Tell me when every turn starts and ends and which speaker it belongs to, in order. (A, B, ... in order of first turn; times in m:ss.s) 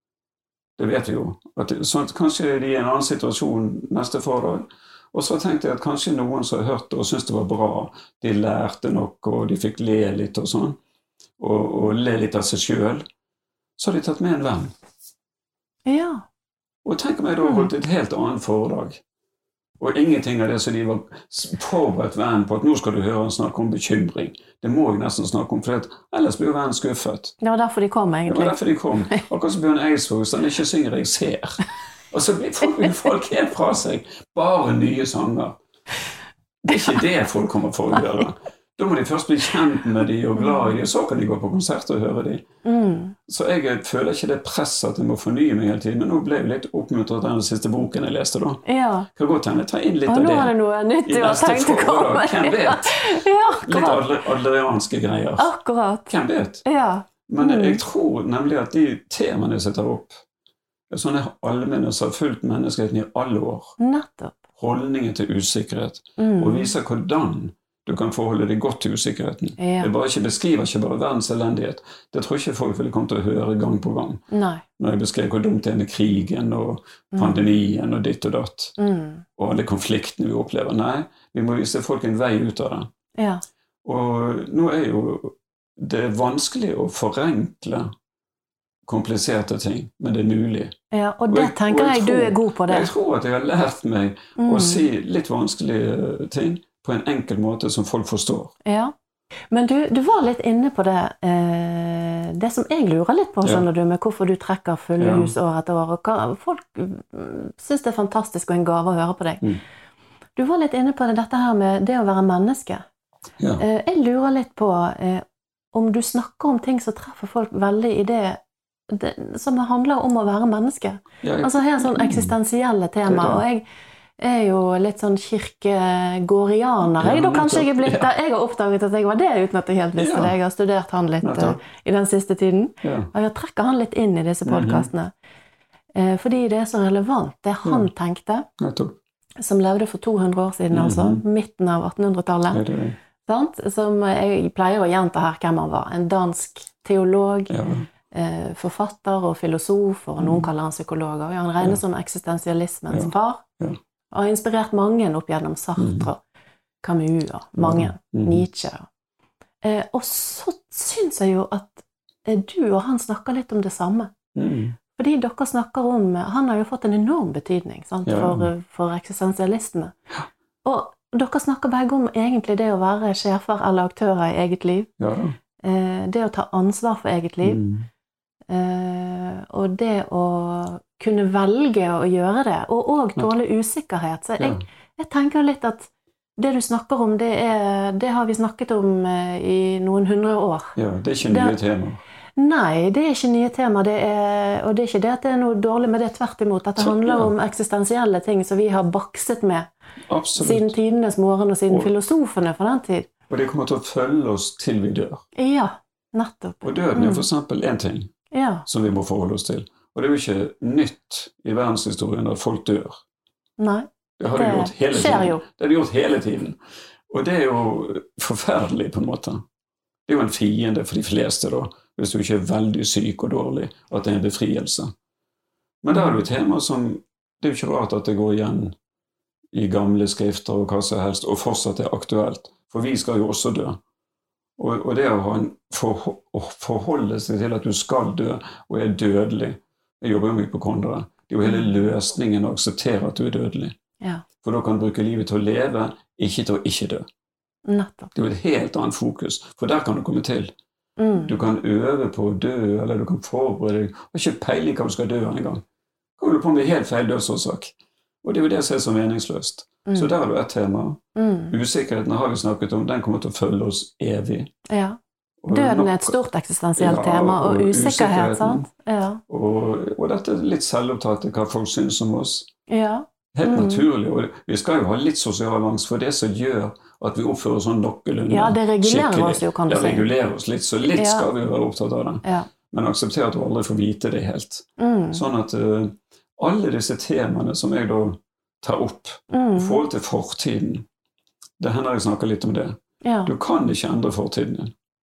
0:00.8-0:10.8 A
0:11.4-0:13.0 A
0:13.8-0:14.7 A
0:15.8-0:16.2 B
0:16.8-0:19.0 A
0:17.4-0:17.7 B
0:19.8-0:27.4 A
0:27.4-0:28.6 B
0:28.3-0:35.6 A
0:32.6-0:32.9 B
0:36.6-0:42.4 A
0:36.7-0:37.0 B
0:40.4-0:40.7 B
0:42.6-0:43.2 B
0:43.3-0:48.6 A
0:48.6-0:49.1 B
0:49.1-0:50.5 A
0:50.1-0:54.0 B
0:51.0-0:55.5 A
0:55.4-0:56.1 B
0:56.1-0:56.6 A
0:56.6-0:57.8 B
0:57.3-1:00.2 A
1:00.9-1:03.8 A
1:03.8-1:04.4 B
1:04.6-1:14.2 A
1:06.2-1:06.7 B
1:09.6-1:09.9 B
1:14.3-1:14.6 B
1:14.8-1:18.8 A
1:17.1-1:17.4 B
1:18.8-1:19.2 B
1:19.4-1:22.9 A
1:23.2-1:23.4 B
1:23.8-1:27.9 A
1:28.9-1:30.7 A
1:30.9-1:32.9 B
1:31.3-1:38.5 A
1:34.4-1:34.9 B
1:38.6-1:38.9 B
1:39.5-1:49.5 B
1:45.0-1:45.3 A
1:50.4-1:52.8 B
1:53.6-2:03.6 B
2:01.2-2:02.3 A
2:03.1-2:03.4 A
2:04.2-2:15.1 B
2:06.8-2:08.1 A
2:10.0-2:10.3 A
2:11.2-2:11.6 A
2:12.8-2:13.1 A
2:14.4-2:14.9 A
2:15.9-2:18.5 B
2:17.6-2:17.9 A
2:18.6-2:19.0 A
2:19.4-2:22.6 B
2:20.7-2:21.2 A
2:22.5-2:23.0 A
2:23.2-2:27.5 B
2:27.5-2:27.9 A
2:28.1-2:33.4 B
2:30.2-2:30.5 A
2:32.9-2:33.8 A
2:34.1-2:36.2 B
2:35.8-2:36.1 A
2:36.8-2:38.9 B
2:37.6-2:38.4 A
2:39.6-2:44.1 B
2:44.3-2:44.8 A
2:45.0-2:49.9 B
2:48.0-2:48.5 A
2:50.6-2:54.9 B
2:55.0-2:55.4 A
2:55.6-2:57.6 B
2:57.4-2:57.9 A
2:58.5-3:11.6 B
3:10.8-3:12.0 A
3:12.4-3:19.7 B
3:16.8-3:17.3 A
3:20.1-3:20.7 A
3:20.4-3:23.1 B
3:23.3-3:25.2 A
3:25.3-3:27.2 B
3:26.6-3:28.1 A
3:28.3-3:28.6 B
3:28.6-3:33.0 A
3:33.6-3:35.4 B
3:34.2-3:36.6 A
3:37.1-3:39.4 A
3:40.1-3:44.9 A
3:45.8-3:48.8 A
3:45.9-3:46.2 B
3:49.5-3:53.8 A
3:54.6-4:03.7 A
4:01.4-4:01.8 B
4:04.4-4:07.0 A
4:07.7-4:08.1 B
4:08.1-4:10.5 A
4:11.0-4:11.3 B
4:11.2-4:15.6 A
4:16.2-4:24.5 A
4:19.8-4:20.1 B
4:21.2-4:21.6 B
4:24.7-4:25.0 B
4:25.4-4:26.2 A
4:25.5-4:29.2 B
4:26.8-4:28.7 A
4:29.3-4:32.5 A
4:32.7-4:33.8 B
4:33.3-4:50.8 A
4:38.3-4:40.1 B
4:40.9-4:41.3 B
4:44.8-4:45.2 B
4:49.3-4:49.8 B
4:51.6-4:54.7 A
4:53.0-4:53.3 B